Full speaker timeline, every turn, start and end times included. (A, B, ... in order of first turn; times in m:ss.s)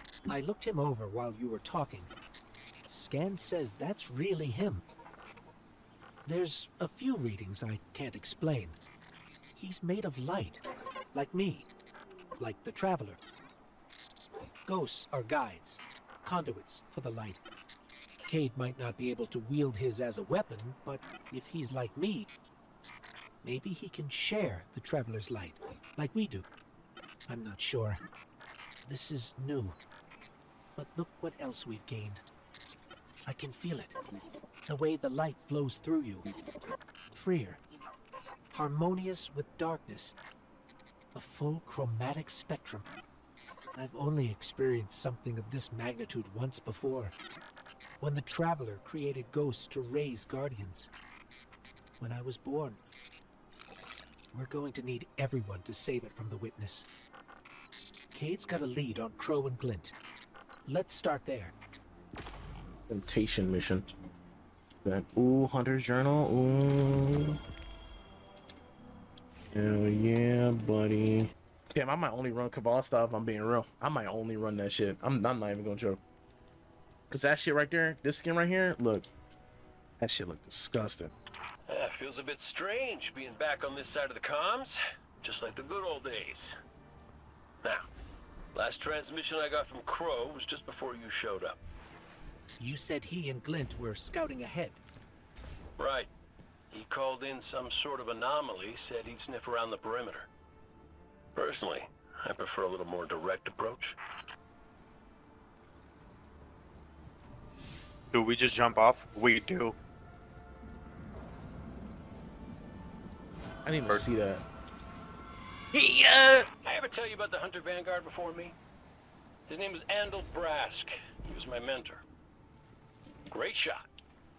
0:00.3-0:02.1 A
0:02.9-0:04.8 A
0:06.2-0:08.8 A
0:09.5-0:11.7 A
0:12.4-0:13.2 A
0:14.6-0:17.4 A
0:18.2-0:22.5 A
0:23.4-0:26.4 A
0:27.3-0:28.0 A
0:28.8-0:29.8 A
0:30.8-0:32.2 A
0:33.2-0:34.0 A
0:34.6-0:36.3 A
0:37.1-0:37.6 A
0:38.5-0:40.1 A
0:41.1-0:42.8 A
0:43.7-0:47.1 A
0:48.0-0:50.9 A
0:52.0-0:52.8 A
0:54.3-0:56.9 A
0:58.1-0:59.9 A
1:00.6-1:01.5 A
1:02.9-1:03.9 B
1:04.8-1:07.4 B
1:09.5-1:16.0 B
1:17.1-1:19.1 B
1:20.0-1:21.1 B
1:21.7-1:26.5 C
1:27.6-1:27.9 C
1:28.5-1:31.6 C
1:32.6-1:34.8 A
1:35.8-1:36.1 C
1:36.7-1:40.3 C
1:41.4-1:44.0 C
1:48.1-1:49.7 D
1:53.6-1:54.4 B
1:55.7-1:56.5 D
1:56.6-1:58.6 C
1:59.5-2:02.0 C
2:03.3-2:03.9 C